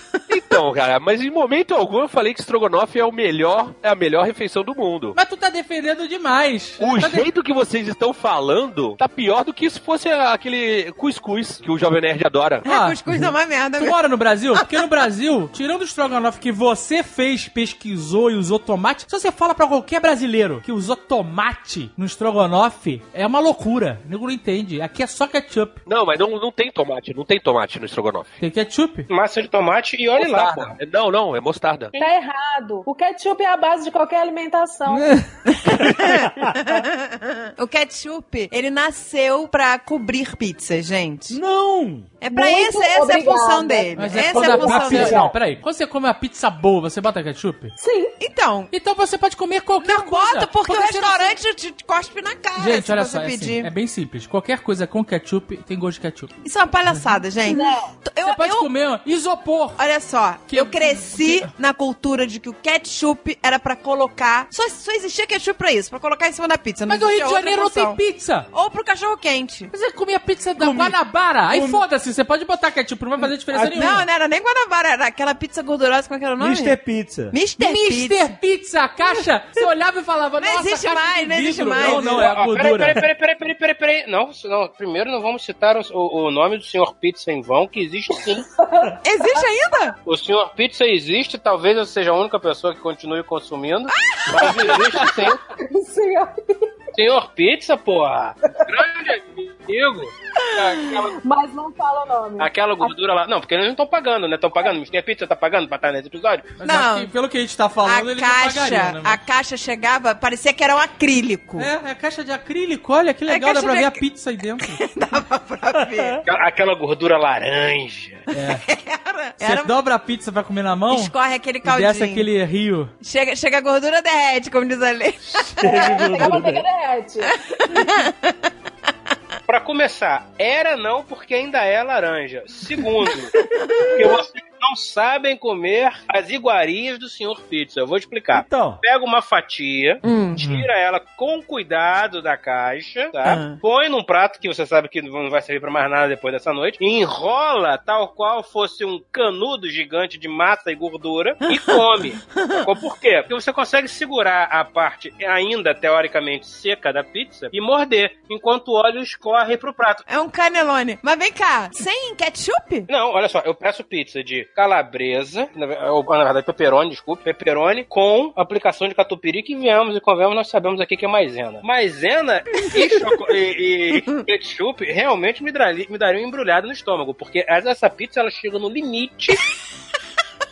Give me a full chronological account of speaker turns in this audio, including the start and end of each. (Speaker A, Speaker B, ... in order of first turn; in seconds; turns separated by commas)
Speaker A: 0.3-5.2, Speaker B: 5.2-7.2, Speaker A: 6.8-12.6, Speaker C: 12.6-13.9, Speaker B: 12.6-25.8, Speaker A: 25.9-28.4, Speaker B: 28.4-29.1, Speaker D: 29.1-30.8, Speaker A: 30.1-31.9, Speaker E: 32.0-35.1, Speaker F: 34.9-35.2, Speaker C: 35.5-41.4, Speaker F: 41.3-42.1, Speaker C: 42.2-45.3, Speaker E: 42.3-45.3, Speaker B: 44.0-47.7, Speaker E: 47.8-48.1, Speaker C: 48.2-48.7, Speaker B: 48.7-51.4, Speaker C: 49.8-53.7, Speaker B: 52.5-56.3, Speaker C: 56.4-58.7, Speaker E: 57.5-57.9, Speaker B: 58.2-59.8, Speaker C: 59.8-68.0, Speaker B: 60.5-61.5, Speaker B: 66.9-68.5, Speaker C: 68.5-69.7, Speaker B: 69.7-74.0, Speaker F: 70.5-71.8, Speaker F: 73.5-74.0, Speaker C: 73.7-76.8, Speaker F: 76.4-77.3, Speaker C: 77.3-78.3, Speaker B: 77.6-83.0, Speaker C: 80.4-82.2, Speaker D: 81.8-88.5, Speaker E: 88.6-89.0, Speaker C: 89.0-90.0, Speaker D: 90.0-95.4, Speaker E: 95.6-96.7, Speaker D: 96.9-101.1, Speaker E: 101.2-102.9, Speaker D: 102.4-106.5, Speaker B: 106.6-109.2, Speaker C: 106.6-107.1, Speaker C: 107.8-111.7, Speaker B: 111.6-114.8, Speaker C: 113.3-114.0, Speaker C: 114.6-116.2, Speaker F: 115.8-116.2, Speaker D: 116.2-118.2, Speaker B: 118.3-118.6, Speaker C: 118.5-119.7, Speaker B: 119.4-122.9, Speaker C: 120.9-122.2, Speaker C: 123.0-126.4, Speaker F: 125.3-126.6, Speaker E: 125.6-127.3, Speaker C: 127.3-128.3, Speaker D: 129.5-133.3, Speaker C: 133.6-134.2, Speaker D: 133.9-160.0, Speaker F: 138.3-138.8, Speaker C: 140.0-140.4, Speaker B: 140.4-140.7, Speaker C: 143.2-143.6, Speaker C: 151.5-152.6, Speaker C: 160.1-162.9, Speaker D: 162.9-179.4